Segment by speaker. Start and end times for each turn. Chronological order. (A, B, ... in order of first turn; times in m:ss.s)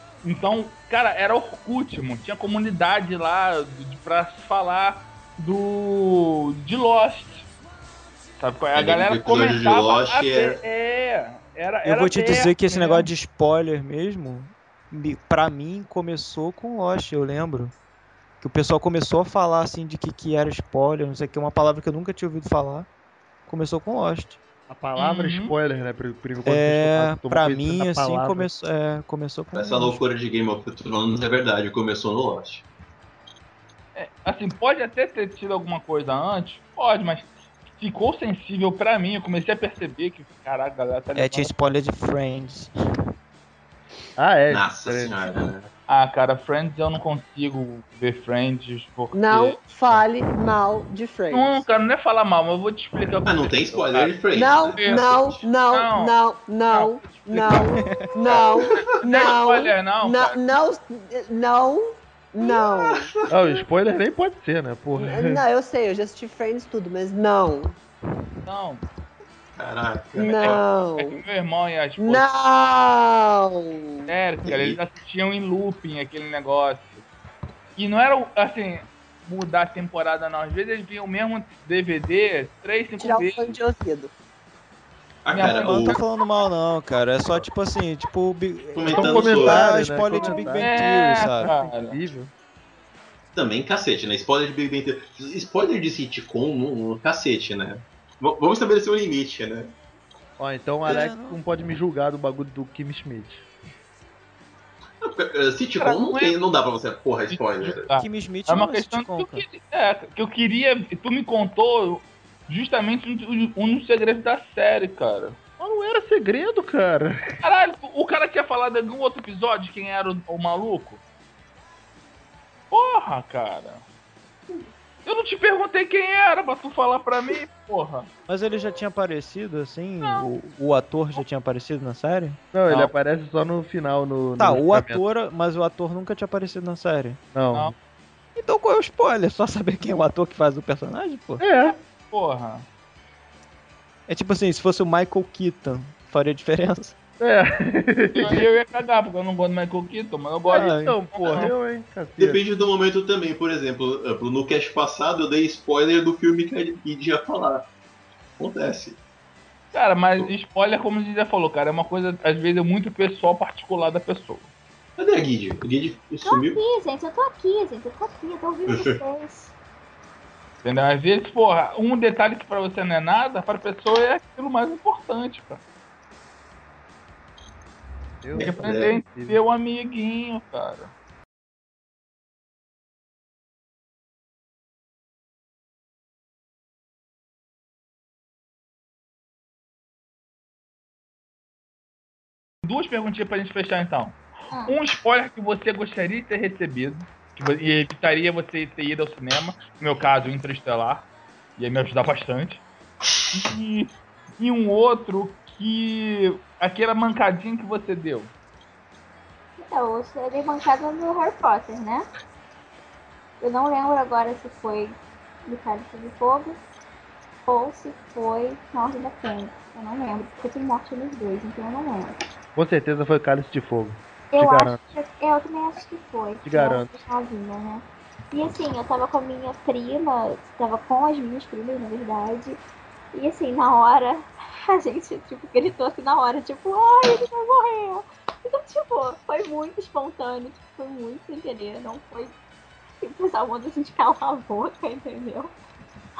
0:00.2-0:07.5 A
0:08.4-0:13.1 A
0:08.7-0:10.6 B
0:11.8-0:17.7 C
0:18.4-0:22.9 C
0:23.4-0:24.4 C
0:24.7-0:28.5 D
0:25.0-0:25.5 A
0:26.4-0:30.0 C
0:29.5-0:32.6 B
0:33.9-0:41.5 A
0:41.2-0:42.7 C
0:44.2-0:45.1 D
0:44.5-0:45.7 B
0:45.9-0:50.0 A
0:49.1-0:51.6 E
0:51.3-0:56.1 A
0:53.2-0:55.4 B
0:54.3-1:03.1 E
0:56.7-1:00.4 A
0:57.8-0:58.2 C
0:58.3-0:58.9 B
1:02.6-1:03.3 B
1:03.3-1:05.4 D
1:05.0-1:07.8 E
1:08.4-1:08.8 A
1:09.6-1:10.6 B
1:10.2-1:12.2 A
1:10.2-1:11.2 E
1:12.0-1:14.1 E
1:14.1-1:17.0 A
1:14.4-1:14.8 B
1:17.8-1:23.6 A
1:23.0-1:24.1 E
1:25.2-1:26.0 B
1:25.3-1:26.0 A
1:25.4-1:31.5 C
1:28.7-1:29.8 B
1:28.9-1:30.7 D
1:30.5-1:32.0 A
1:31.4-1:32.3 D
1:33.3-1:39.7 B
1:40.4-1:43.5 D
1:40.8-1:41.4 C
1:45.0-1:47.9 B
1:45.8-1:46.4 A
1:47.3-1:55.4 A
1:47.9-1:49.4 C
1:55.6-1:57.4 D
1:57.4-2:01.0 A
2:02.7-2:03.8 A
2:05.0-2:08.1 A
2:08.3-2:12.4 C
2:12.5-2:15.0 D
2:12.7-2:12.9 A
2:14.4-2:17.2 C
2:17.3-2:17.7 D
2:18.4-2:21.4 C
2:21.4-2:21.8 D
2:21.6-2:22.6 A
2:24.1-2:27.0 C
2:27.2-2:28.4 D
2:28.1-2:31.5 A
2:30.5-2:31.0 C
2:30.5-2:32.4 D
2:32.2-2:37.7 B
2:38.4-2:39.0 B
2:39.7-2:44.5 A
2:45.0-2:46.6 B
2:46.2-2:49.5 F
2:48.7-2:49.0 B
2:50.6-2:55.6 A
2:58.2-2:59.4 D
2:58.3-2:59.0 B
2:58.4-3:00.9 A
3:12.6-3:22.6 A
3:23.3-3:28.3 A
3:29.6-3:32.1 F
3:33.4-3:36.6 F
3:37.5-3:42.2 F
3:42.6-3:44.8 D
3:44.3-3:52.6 F
3:46.4-3:46.9 D
3:53.1-4:02.4 F
4:03.0-4:05.5 F